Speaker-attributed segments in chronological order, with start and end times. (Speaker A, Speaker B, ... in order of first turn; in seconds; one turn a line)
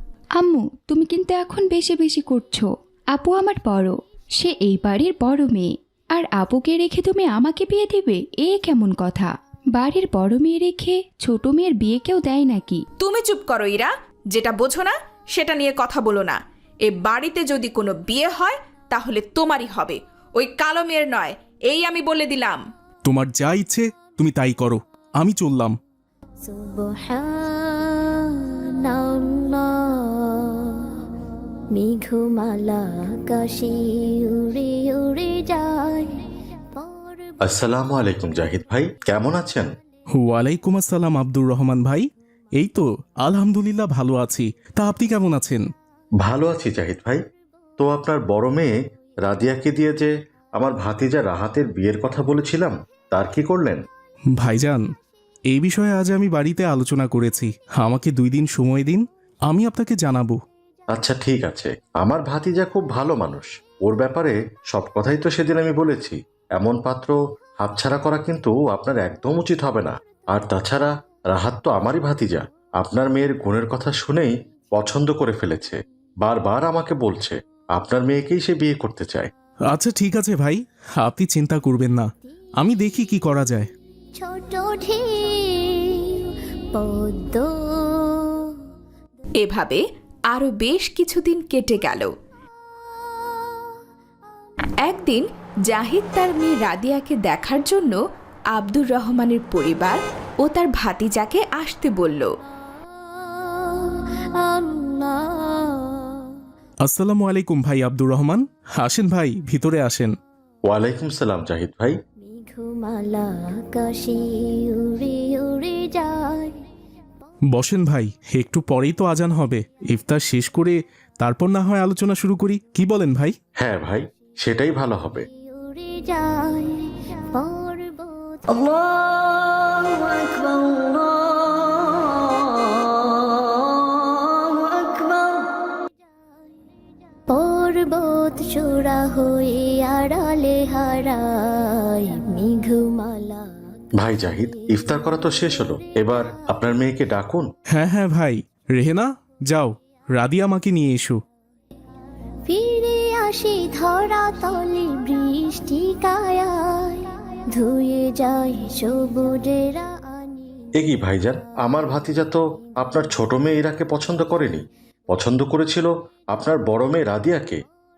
Speaker A: 0.4-12.8
Speaker B: 13.0-22.6
Speaker C: 23.1-25.8
Speaker D: 26.4-30.9
Speaker D: 31.7-36.2
Speaker D: 36.8-38.3
Speaker E: 37.5-39.7
Speaker C: 40.1-45.6
Speaker E: 46.2-47.2
Speaker E: 47.8-48.7
Speaker E: 49.2-53.8
Speaker C: 54.4-54.8
Speaker C: 55.5-60.4
Speaker E: 60.9-79.3
Speaker C: 79.7-82.1
Speaker C: 82.6-83.7
Speaker D: 84.2-88.6
Speaker B: 89.4-92.1
Speaker B: 94.8-98.0
Speaker B: 98.5-102.3
Speaker D: 103.1-106.4
Speaker C: 106.8-110.1
Speaker E: 110.7-112.0
Speaker D: 112.2-116.6
Speaker C: 117.5-123.3
Speaker E: 123.6-125.3
Speaker D: 125.3-128.8
Speaker D: 137.3-146.4
Speaker E: 144.0-147.4
Speaker C: 147.7-151.2
Speaker D: 152.5-160.7
Speaker E: 160.8-167.6